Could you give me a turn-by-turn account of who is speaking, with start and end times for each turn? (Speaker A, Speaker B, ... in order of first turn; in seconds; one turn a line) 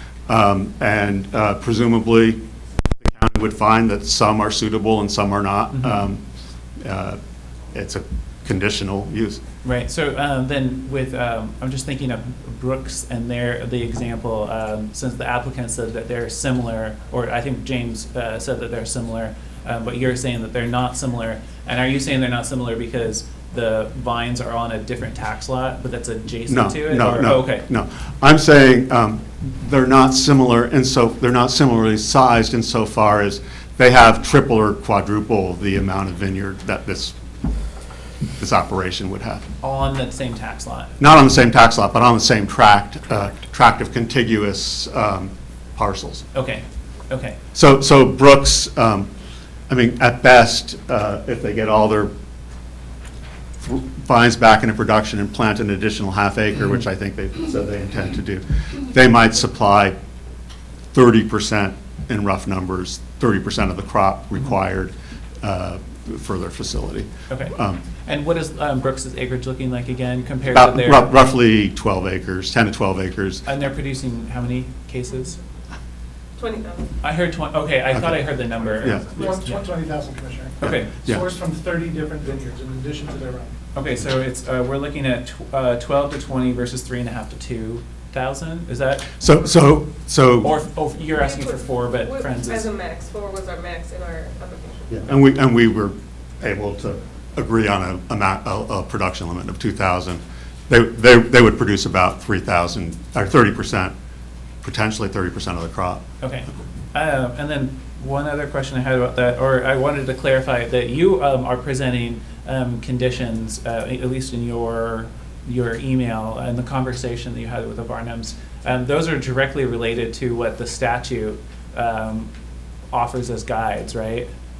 Speaker A: 0.3-2.4
Speaker A: 3.0-6.2
Speaker A: 6.8-7.2
Speaker A: 7.7-9.4
Speaker B: 9.6-27.6
Speaker A: 26.5-37.1
Speaker A: 38.4-39.5
Speaker B: 39.6-41.0
Speaker A: 41.0-46.2
Speaker B: 46.3-47.4
Speaker A: 47.5-49.1
Speaker A: 49.7-52.1
Speaker A: 53.6-59.9
Speaker A: 60.9-67.8
Speaker B: 67.3-71.1
Speaker A: 70.5-73.4
Speaker B: 73.4-75.4
Speaker C: 76.4-76.9
Speaker B: 77.0-79.6
Speaker D: 79.0-83.5
Speaker A: 80.6-81.2
Speaker B: 80.6-81.0
Speaker B: 83.7-89.1
Speaker A: 89.2-90.5
Speaker B: 90.4-92.7
Speaker C: 91.2-95.1
Speaker A: 94.9-103.9
Speaker A: 104.6-106.0
Speaker B: 106.2-122.3
Speaker B: 122.9-124.3